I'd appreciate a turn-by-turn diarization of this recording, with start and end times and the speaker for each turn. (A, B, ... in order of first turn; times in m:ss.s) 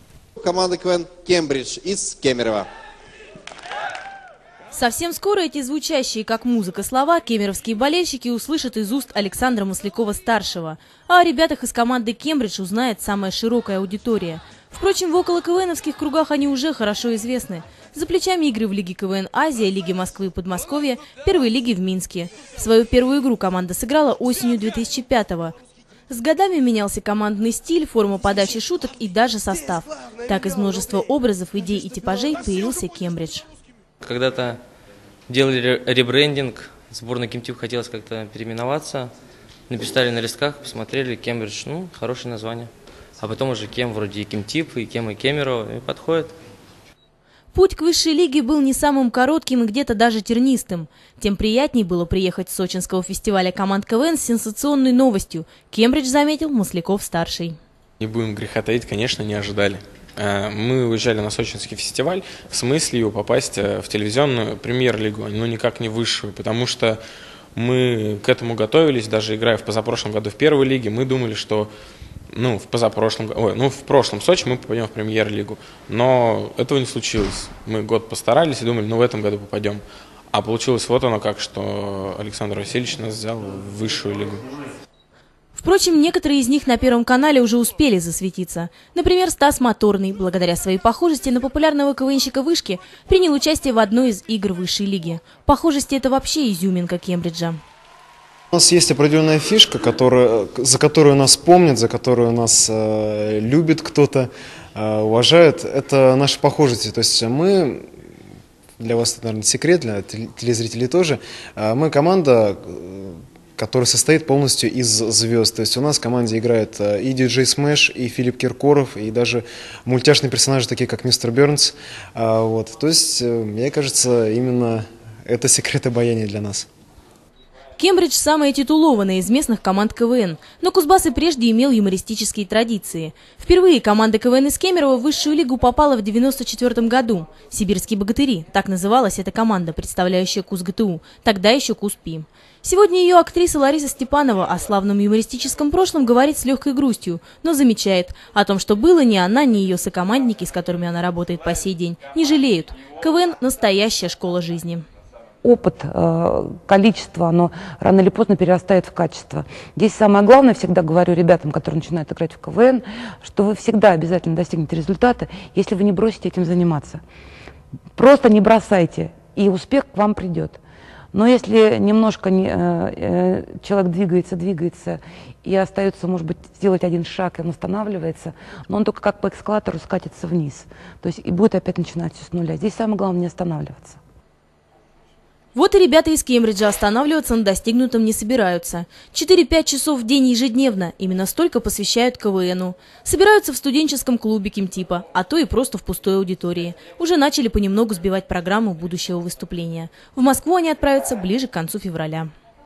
0:00.4-0:02.7 A
0:04.7-0:25.6 B
0:26.1-0:33.4 B
0:34.0-0:34.6 C
0:35.3-0:39.1 C
0:39.7-0:46.3 C
0:47.5-0:57.6 B
0:58.0-1:07.0 D
1:07.6-1:11.7 D
1:12.3-1:24.4 D
1:25.6-1:37.6 B
1:38.5-1:47.8 E
1:48.8-2:06.7 E
2:07.8-2:34.8 B
2:35.4-2:47.0 F
2:48.0-2:50.6 F
2:51.1-3:04.0 F
3:05.5-3:22.3 B